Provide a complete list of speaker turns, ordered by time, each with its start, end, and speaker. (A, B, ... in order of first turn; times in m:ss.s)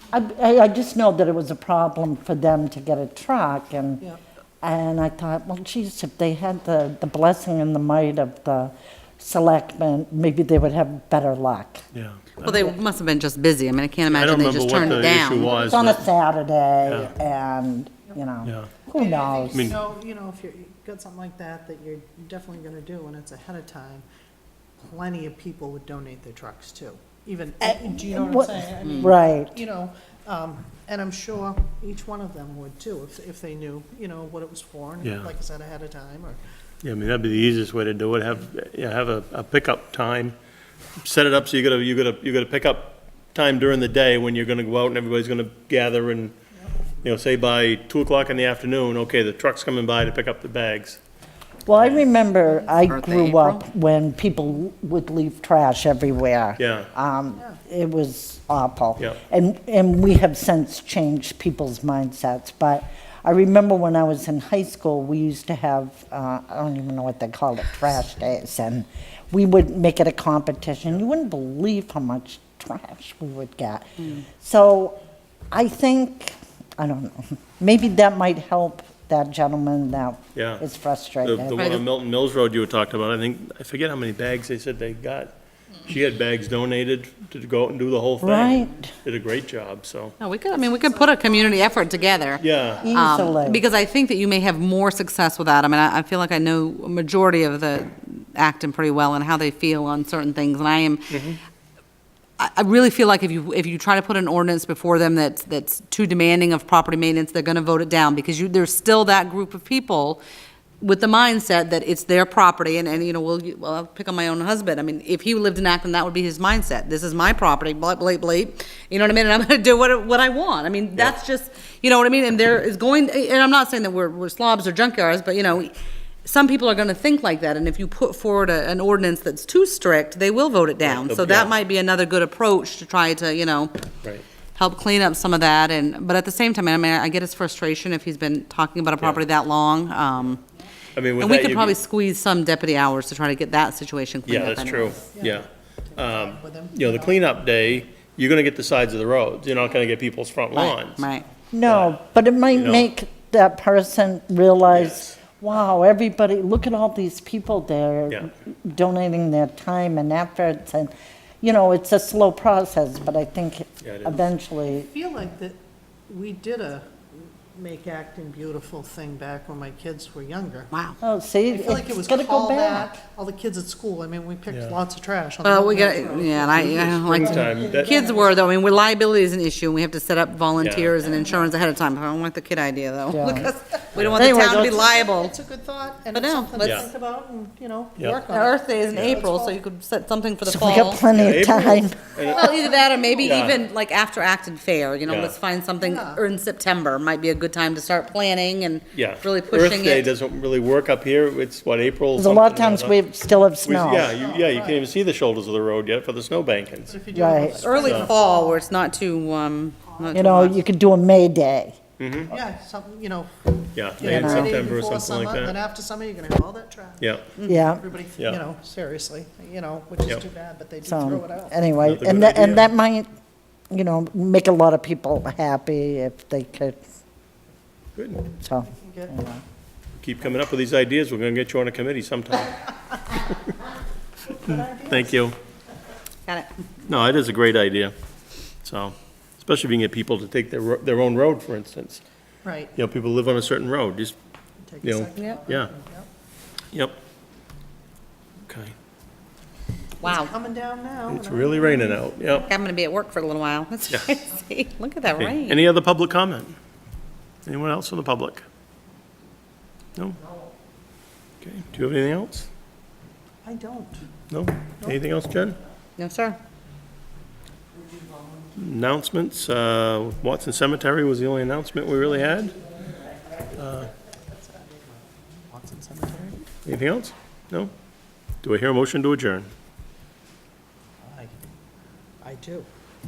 0:00.1-0:04.0 A
0:04.6-0:11.8 A
0:11.9-0:12.7 B
0:12.4-0:15.6 C
0:14.1-0:16.1 B
0:14.8-0:19.7 A
0:16.8-0:17.1 B
0:18.4-0:18.7 B
0:18.9-0:24.0 D
0:19.5-0:19.8 B
0:24.8-0:36.4 D
0:27.6-0:29.6 A
0:28.8-0:29.1 C
0:35.0-0:35.3 B
0:36.8-0:40.4 B
0:41.0-0:46.3 B
0:47.0-0:51.0 B
0:51.7-1:15.0 A
0:51.8-0:52.1 B
0:52.6-0:53.6 C
0:56.6-0:56.9 B
1:15.5-1:21.8 A
1:20.3-1:20.6 B
1:21.2-1:25.3 B
1:21.6-1:21.8 C
1:25.8-1:30.2 B
1:28.2-1:28.9 A
1:30.2-1:41.2 C
1:30.5-1:32.8 D
1:32.4-1:32.9 B
1:32.8-1:33.6 A
1:41.1-1:41.4 B
1:42.4-1:50.2 C
1:50.8-2:13.8 C
2:10.8-2:11.5 B
2:14.5-2:20.4 C
2:20.9-2:21.8 B
2:21.2-2:25.0 C
2:24.2-2:31.0 B
2:25.0-2:27.3 D
2:30.5-2:31.2 C
2:31.5-2:44.9 A
2:31.6-2:32.0 B
2:32.5-2:32.9 B
2:34.7-2:35.2 B
2:43.8-2:44.2 B
2:44.7-2:50.7 D
2:50.7-2:51.0 C
2:51.0-2:53.0 A
2:51.5-2:58.4 D
2:54.5-2:54.8 B
2:55.4-3:05.4 C
2:56.6-2:58.0 B
3:00.6-3:01.0 B
3:01.1-3:01.4 D
3:03.1-3:04.8 A
3:03.9-3:04.4 B
3:04.2-3:09.6 D
3:06.1-3:06.9 C
3:06.6-3:06.9 B
3:08.3-3:11.0 C
3:08.9-3:09.2 B
3:10.4-3:12.0 A
3:11.1-3:12.5 B
3:12.2-3:20.1 C
3:12.5-3:13.3 D
3:13.2-3:13.6 B
3:15.0-3:15.3 B
3:15.8-3:16.2 D
3:18.9-3:23.0 B
3:22.2-3:24.1 A
3:23.6-3:27.0 B
3:24.0-3:24.8 D
3:26.9-3:28.2 D
3:27.1-3:27.8 A
3:27.6-3:30.6 C
3:27.8-3:28.1 B
3:29.9-3:30.2 D
3:30.1-3:31.8 A
3:32.0-3:32.3 B
3:32.3-3:41.6 D
3:33.8-3:35.6 B
3:34.0-3:34.6 A
3:37.0-3:37.3 B
3:37.5-3:37.8 A
3:40.8-3:43.1 A
3:41.8-3:42.7 B
3:43.7-3:46.8 A
3:48.0-3:48.3 B
3:48.4-3:49.4 A
3:48.6-3:49.2 D
3:50.0-3:53.5 B
3:54.3-3:55.2 D
3:54.3-3:55.4 B
3:56.9-3:57.9 B
3:58.6-4:02.0 B
4:02.4-4:02.7 D
4:02.7-4:04.1 B
4:04.6-4:06.1 D
4:04.8-4:05.7 B
4:06.7-4:07.0 B
4:08.5-4:08.7 B
4:10.0-4:10.3 C
4:10.0-4:12.4 D
4:11.1-4:12.5 B
4:12.4-4:15.6 C
4:13.9-4:14.2 B
4:15.2-4:16.5 B
4:17.4-4:18.4 B
4:21.4-4:22.5 B
4:23.4-4:24.0 D
4:24.3-4:25.6 B
4:26.0-4:26.4 C
4:28.6-4:32.6 B
4:33.6-4:33.9 B
4:34.1-4:36.5 D
4:36.6-4:37.7 B
4:38.4-4:39.5 B
4:41.0-4:41.4 D
4:42.2-4:42.7 D